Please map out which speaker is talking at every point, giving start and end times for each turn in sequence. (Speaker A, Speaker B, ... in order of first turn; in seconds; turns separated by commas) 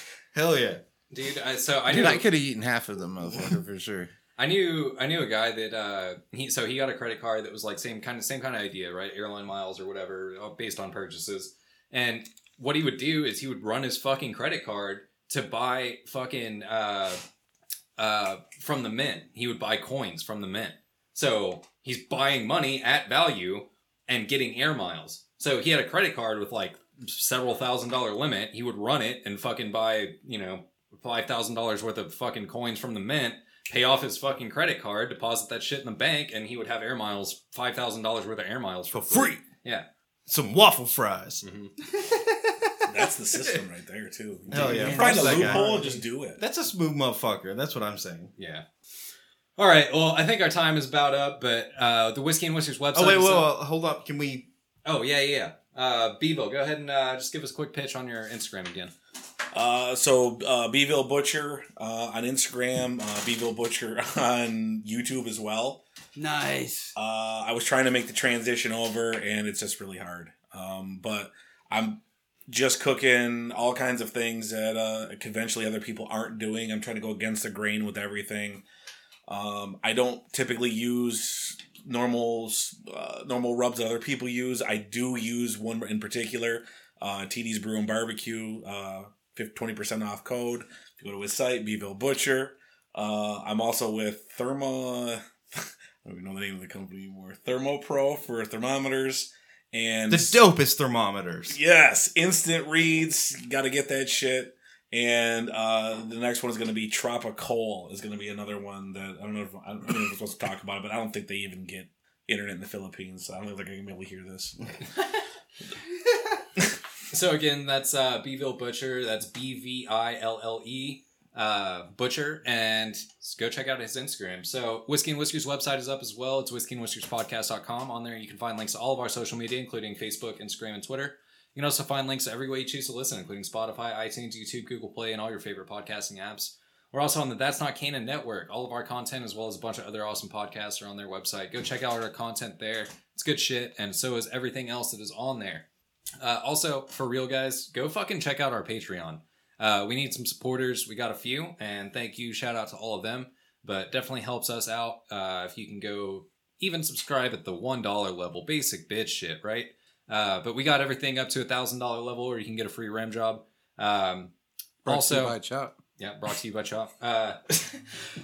Speaker A: 0.3-0.8, Speaker B: 1.1-2.3, Speaker C: 1.9-4.1, Speaker B: 4.4-17.2, Speaker B: 18.0-39.9, Speaker A: 38.9-39.4, Speaker A: 40.3-41.4, Speaker B: 41.4-41.7, Speaker D: 42.9-46.4, Speaker A: 44.5-45.8, Speaker E: 44.6-46.0, Speaker C: 45.2-45.5, Speaker A: 46.4-48.3, Speaker B: 48.4-48.6, Speaker B: 49.6-53.5, Speaker A: 52.9-54.5, Speaker B: 54.8-58.9, Speaker D: 59.5-65.8, Speaker E: 66.2-66.9, Speaker D: 67.0-78.6, Speaker D: 79.3-100.4, Speaker A: 100.1-101.6, Speaker D: 101.5-114.5, Speaker B: 117.1-145.6, Speaker B: 146.2-164.3, Speaker C: 164.8-165.8, Speaker B: 164.8-165.3, Speaker B: 166.0-167.8